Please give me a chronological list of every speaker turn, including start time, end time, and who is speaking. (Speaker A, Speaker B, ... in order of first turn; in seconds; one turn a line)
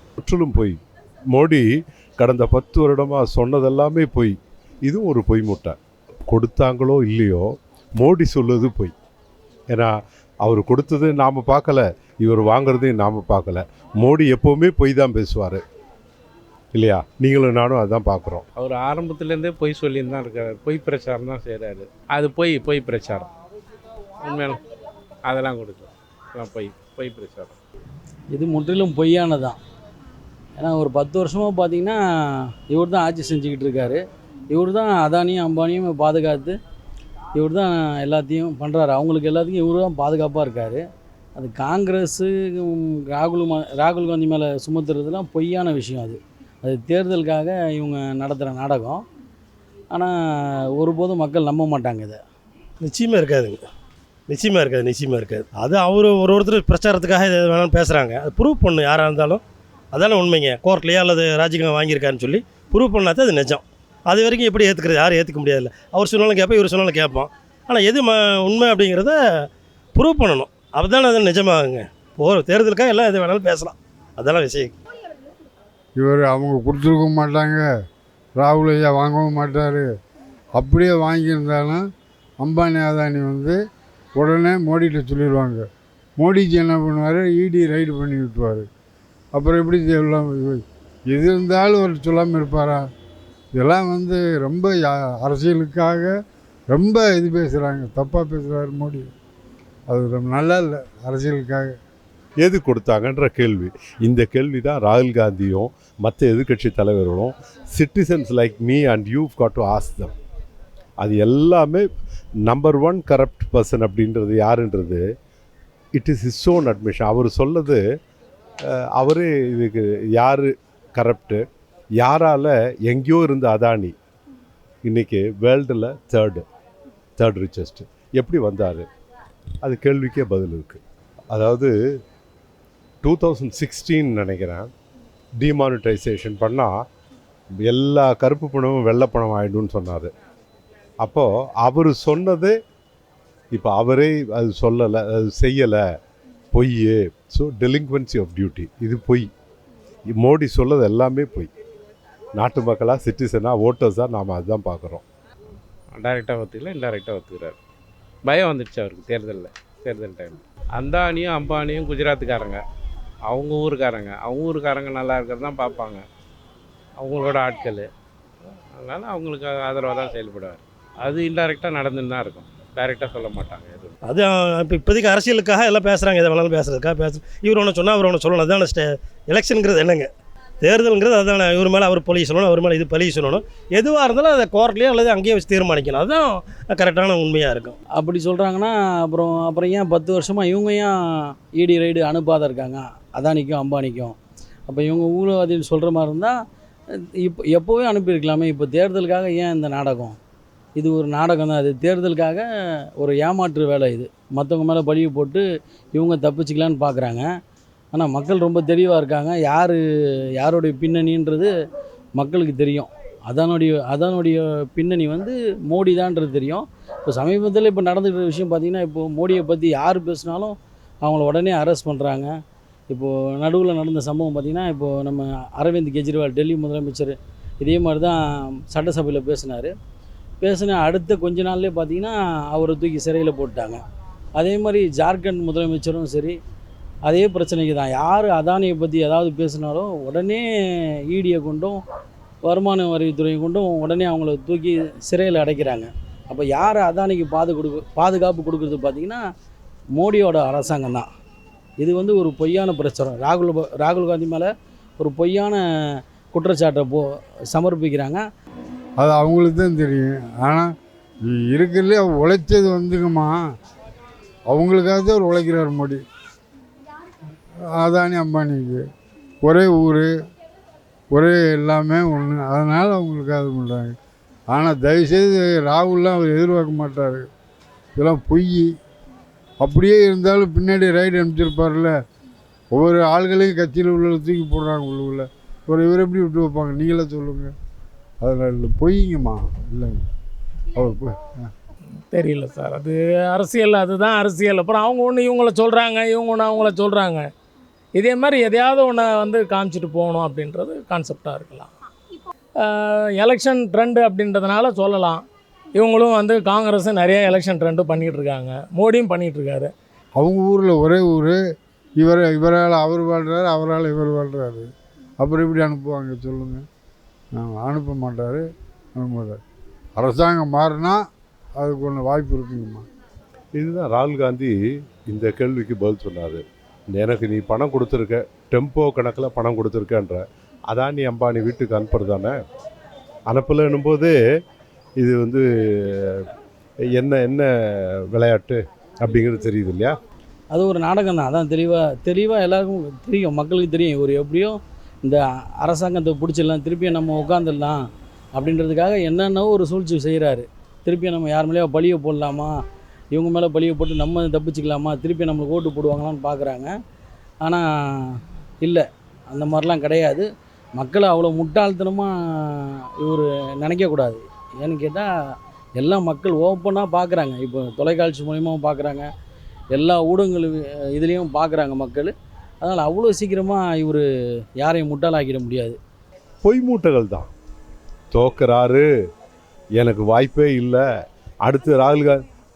Speaker A: 0.2-0.8
Speaker A: 1.3-1.7
Speaker A: 2.2-5.8
Speaker A: 6.3-8.9
Speaker A: 9.7-15.6
Speaker A: 16.7-18.4
Speaker B: 18.5-23.3
Speaker B: 24.2-24.6
Speaker B: 25.2-27.5
Speaker C: 28.3-29.6
Speaker C: 30.6-36.5
Speaker C: 37.3-40.8
Speaker C: 41.4-49.0
Speaker C: 49.9-52.2
Speaker D: 52.8-53.6
Speaker D: 54.3-74.7
Speaker E: 76.0-77.6
Speaker E: 78.4-79.9
Speaker E: 80.5-81.8
Speaker E: 82.4-83.6
Speaker E: 84.2-85.6
Speaker E: 86.2-88.7
Speaker E: 89.3-92.8
Speaker E: 93.5-96.1
Speaker E: 96.7-99.1
Speaker E: 99.9-101.7
Speaker A: 102.4-110.1
Speaker A: 111.0-111.8
Speaker A: 112.4-115.0
Speaker A: 115.9-117.8
Speaker A: 118.6-121.4
Speaker A: 122.0-123.9
Speaker A: 124.8-126.4
Speaker A: 127.2-128.8
Speaker A: 129.6-130.8
Speaker A: 131.3-131.7
Speaker A: 133.0-134.7
Speaker A: 135.4-136.8
Speaker A: 137.6-140.1
Speaker A: 141.0-142.5
Speaker A: 143.5-145.8
Speaker A: 146.5-149.3
Speaker A: 150.1-151.5
Speaker A: 152.3-155.0
Speaker B: 155.9-157.6
Speaker B: 158.2-162.6
Speaker B: 163.3-166.0
Speaker B: 167.0-167.9
Speaker B: 168.8-173.9
Speaker D: 174.0-187.8
Speaker C: 187.9-194.1
Speaker C: 194.7-196.3
Speaker C: 197.2-200.2
Speaker C: 200.8-202.4
Speaker C: 203.0-207.3
Speaker C: 207.9-209.8
Speaker C: 210.3-211.5
Speaker C: 212.2-222.3
Speaker C: 222.9-229.7
Speaker C: 230.4-233.8
Speaker C: 234.3-236.4
Speaker C: 237.0-240.4
Speaker C: 241.1-241.8
Speaker C: 242.4-249.2
Speaker C: 249.9-251.1
Speaker C: 251.8-258.2
Speaker E: 259.0-260.7
Speaker E: 261.3-263.4
Speaker E: 264.5-266.0
Speaker E: 267.7-268.8
Speaker E: 269.4-270.1
Speaker E: 271.1-273.9
Speaker E: 274.5-277.3
Speaker E: 278.0-278.7
Speaker E: 279.6-281.9
Speaker E: 282.7-287.5
Speaker E: 288.2-290.0
Speaker E: 290.7-291.5
Speaker F: 292.1-297.3
Speaker F: 298.0-301.7
Speaker F: 302.6-305.2
Speaker F: 305.8-309.7
Speaker E: 310.2-311.4
Speaker E: 312.0-316.6
Speaker E: 317.4-319.4
Speaker E: 320.0-321.0
Speaker E: 321.6-322.8
Speaker A: 323.5-324.5
Speaker A: 325.1-332.4
Speaker A: 333.3-334.1
Speaker A: 335.0-336.2
Speaker A: 336.9-339.9
Speaker C: 340.5-352.5
Speaker C: 353.1-356.7
Speaker C: 357.4-365.1
Speaker C: 365.8-369.1
Speaker C: 369.7-374.1
Speaker C: 374.6-375.8
Speaker A: 376.4-377.3
Speaker A: 378.1-378.8
Speaker A: 379.8-380.8
Speaker A: 381.4-382.2